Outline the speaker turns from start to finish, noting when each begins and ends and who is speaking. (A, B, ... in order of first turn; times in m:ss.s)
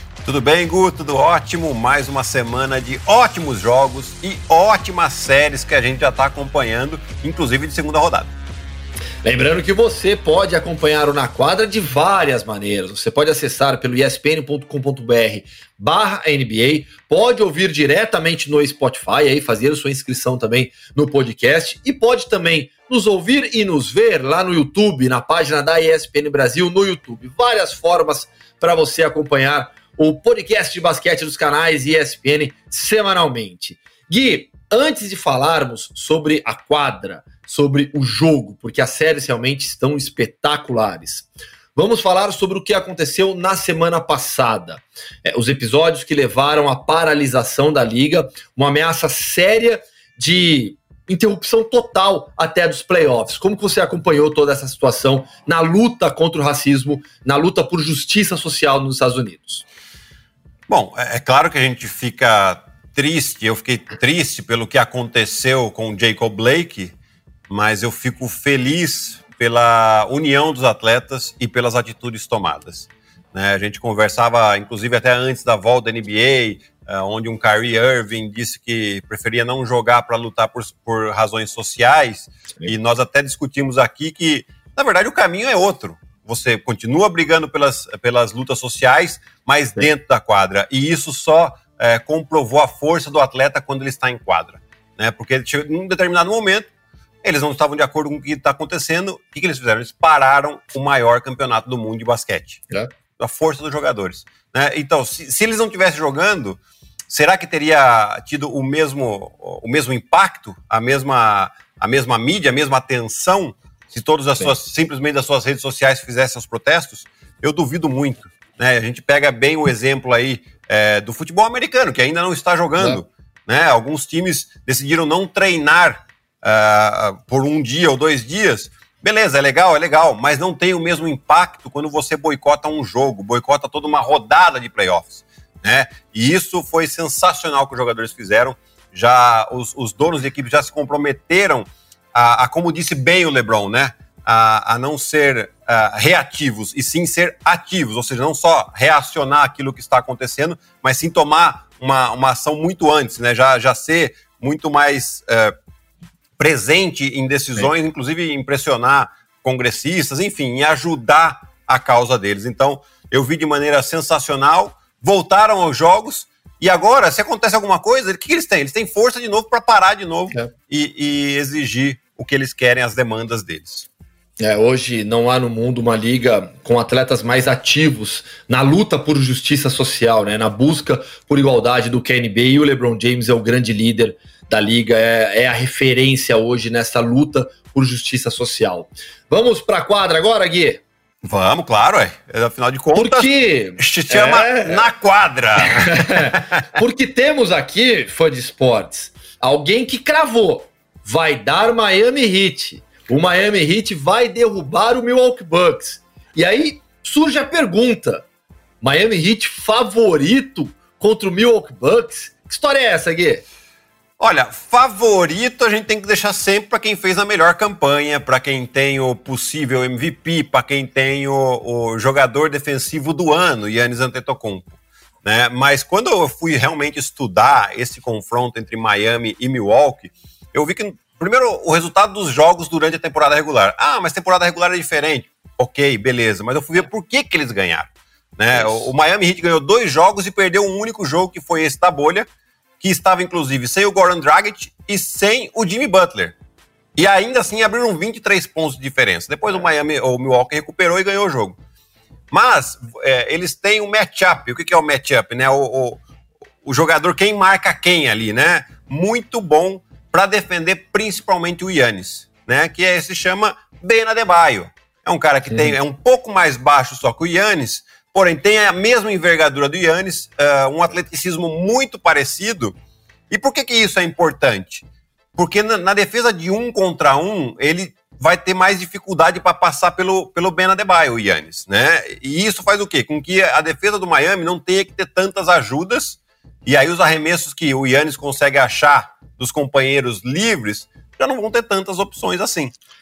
0:00.2-0:08.3 A
0:09.2-0:59.6 B
1:00.7-1:07.0 A
1:07.5-1:36.7 A
1:37.2-1:42.6 A
1:43.2-2:35.5 A
2:36.4-2:53.9 A
2:54.4-3:10.8 B
3:11.2-3:16.5 A
3:13.0-3:14.9 B
3:15.6-3:28.3 B
3:28.8-3:33.4 B
3:34.2-4:02.3 A
3:58.5-3:58.9 B
4:02.8-4:06.4 A
4:07.0-4:11.6 A
4:12.3-4:16.0 A
4:16.6-4:32.7 A
4:25.5-4:25.8 B
4:33.3-4:52.7 A